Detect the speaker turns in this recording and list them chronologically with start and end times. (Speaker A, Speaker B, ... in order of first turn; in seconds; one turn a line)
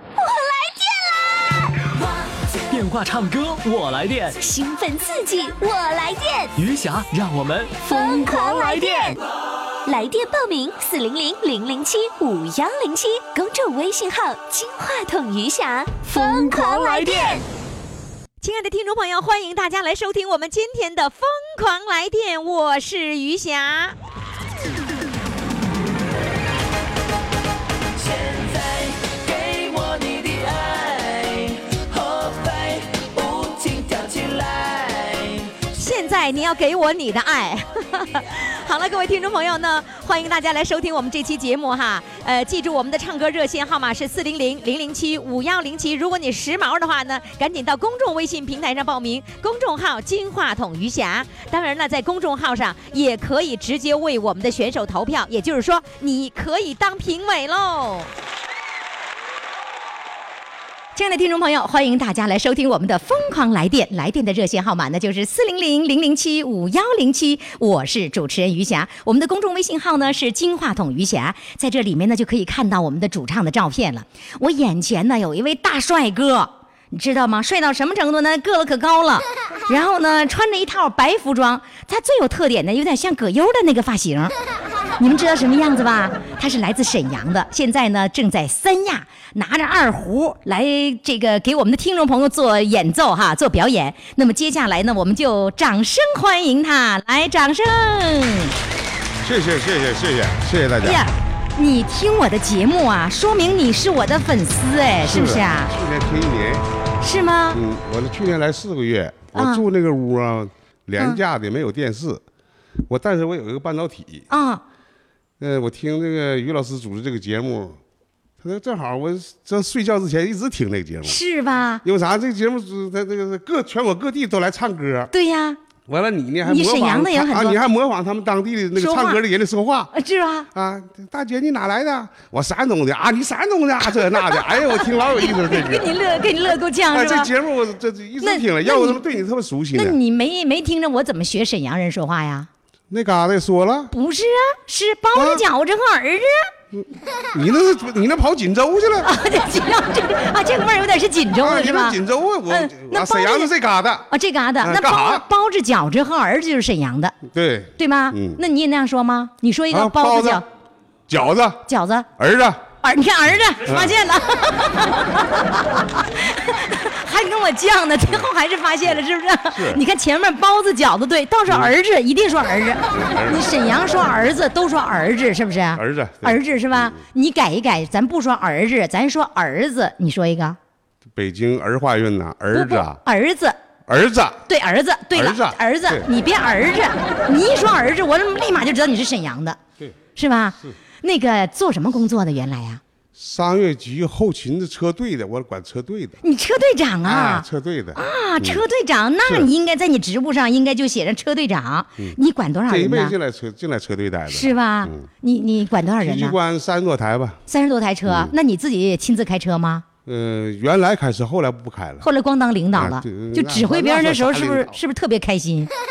Speaker A: 0.2-1.5
Speaker B: 2.7-4.4
Speaker A: 4.4-6.5
Speaker B: 6.5-9.1
Speaker A: 7.8-9.2
Speaker A: 9.8-17.4
Speaker B: 16.1-17.4
Speaker C: 18.4-23.9
Speaker D: 28.2-31.3
Speaker D: 32.2-35.1
Speaker C: 35.6-58.1
Speaker C: 60.9-84.3
Speaker C: 85.0-98.5
Speaker E: 99.2-101.0
Speaker C: 100.8-105.7
Speaker E: 105.0-106.7
Speaker C: 107.0-107.6
Speaker E: 107.5-112.2
Speaker C: 109.3-109.6
Speaker E: 112.9-114.2
Speaker C: 114.3-114.6
Speaker E: 115.4-117.8
Speaker E: 118.4-121.2
Speaker C: 121.0-121.8
Speaker E: 121.8-125.1
Speaker C: 125.1-125.6
Speaker E: 125.9-129.9
Speaker C: 126.4-127.6
Speaker C: 128.7-129.2
Speaker C: 129.9-130.5
Speaker E: 130.5-135.9
Speaker C: 133.9-137.3
Speaker E: 136.9-140.0
Speaker C: 138.2-139.0
Speaker C: 139.7-142.5
Speaker E: 142.9-143.9
Speaker C: 143.9-146.5
Speaker E: 145.1-145.4
Speaker E: 146.7-149.1
Speaker C: 149.0-152.0
Speaker E: 151.4-154.1
Speaker C: 152.5-153.5
Speaker C: 154.1-157.2
Speaker E: 154.6-155.2
Speaker E: 157.2-158.4
Speaker C: 157.8-160.4
Speaker E: 159.7-160.4
Speaker E: 161.1-161.6
Speaker C: 161.7-162.1
Speaker E: 162.2-162.7
Speaker C: 162.8-180.6
Speaker E: 163.7-163.9
Speaker E: 169.5-169.8
Speaker E: 171.5-171.7
Speaker E: 172.9-173.5
Speaker E: 175.7-177.0
Speaker E: 181.1-183.0
Speaker C: 182.5-183.6
Speaker E: 183.9-184.4
Speaker C: 184.5-189.6
Speaker E: 185.1-186.1
Speaker C: 190.1-192.8
Speaker E: 193.2-196.2
Speaker C: 196.2-203.2
Speaker E: 197.0-198.6
Speaker E: 202.0-205.1
Speaker C: 204.3-206.3
Speaker E: 206.0-207.4
Speaker C: 207.5-209.8
Speaker E: 208.1-208.3
Speaker E: 210.1-212.1
Speaker C: 212.0-215.7
Speaker E: 212.7-214.8